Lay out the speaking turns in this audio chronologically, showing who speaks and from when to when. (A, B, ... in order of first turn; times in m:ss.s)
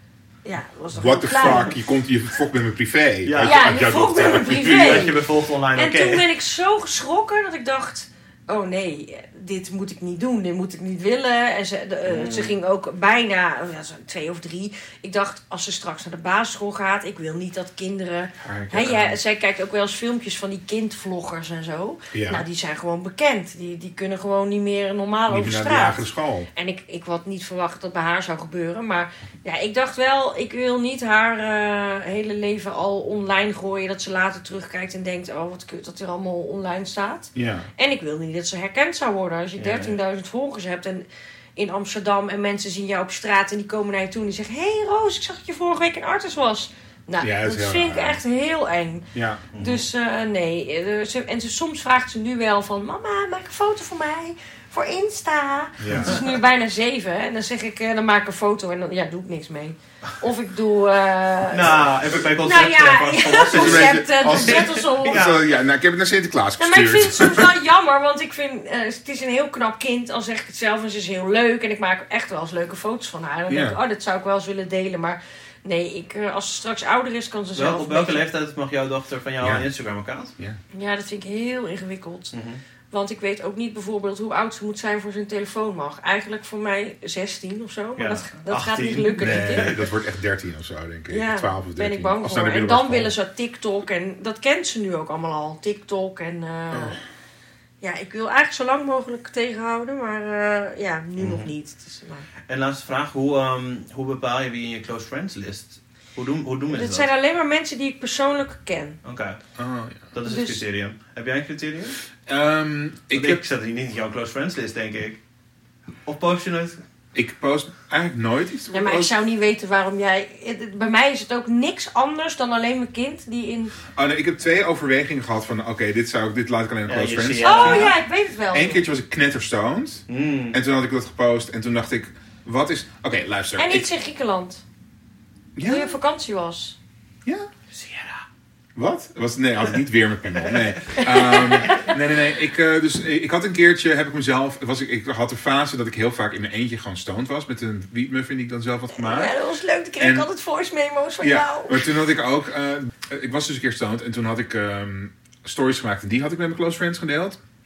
0:00.4-0:01.7 A
0:00.9-0:05.1 B
0:03.2-0:06.3 C
0:03.4-0:05.2 A
0:05.7-0:41.0 A
0:12.1-0:12.6 C
0:18.4-0:19.1 B
0:22.1-0:22.4 B
0:25.3-0:26.5 B
0:37.4-0:37.7 B
0:39.6-0:40.0 C
0:41.6-1:01.8 A
0:47.2-0:48.2 B
0:49.1-0:49.4 B
0:49.5-0:49.9 C
0:55.8-0:56.2 B
0:55.9-0:56.2 C
1:01.5-1:05.5 C
1:02.4-1:05.2 A
1:03.5-1:07.5 B
1:06.6-1:18.3 A
1:13.5-1:13.8 B
1:17.6-1:20.3 C
1:19.4-1:19.7 B
1:20.7-1:22.3 A
1:22.3-1:22.6 C
1:22.9-1:29.7 A
1:28.0-1:29.9 C
1:29.2-1:33.1 B
1:31.1-1:37.0 A
1:36.7-1:37.0 B
1:37.8-1:42.3 A
1:41.2-1:41.5 C
1:42.5-1:47.1 C
1:46.7-1:49.0 A
1:49.0-1:49.4 C
1:49.6-1:50.1 B
1:50.1-1:52.0 C
1:50.2-1:50.6 A
1:52.3-1:53.4 B
1:53.1-1:55.2 C
1:56.1-1:56.8 C
1:57.1-1:59.1 B
1:58.7-2:03.8 A
2:03.9-2:08.0 B
2:06.9-2:07.9 C
2:07.4-2:08.8 A
2:08.5-2:13.9 B
2:10.1-2:10.6 C
2:13.6-2:14.6 A
2:15.6-2:16.0 B
2:15.6-2:16.8 A
2:17.7-2:18.2 C
2:18.8-2:29.3 B
2:21.1-2:21.8 A
2:28.9-2:31.8 A
2:30.0-2:30.3 B
2:31.2-2:37.4 B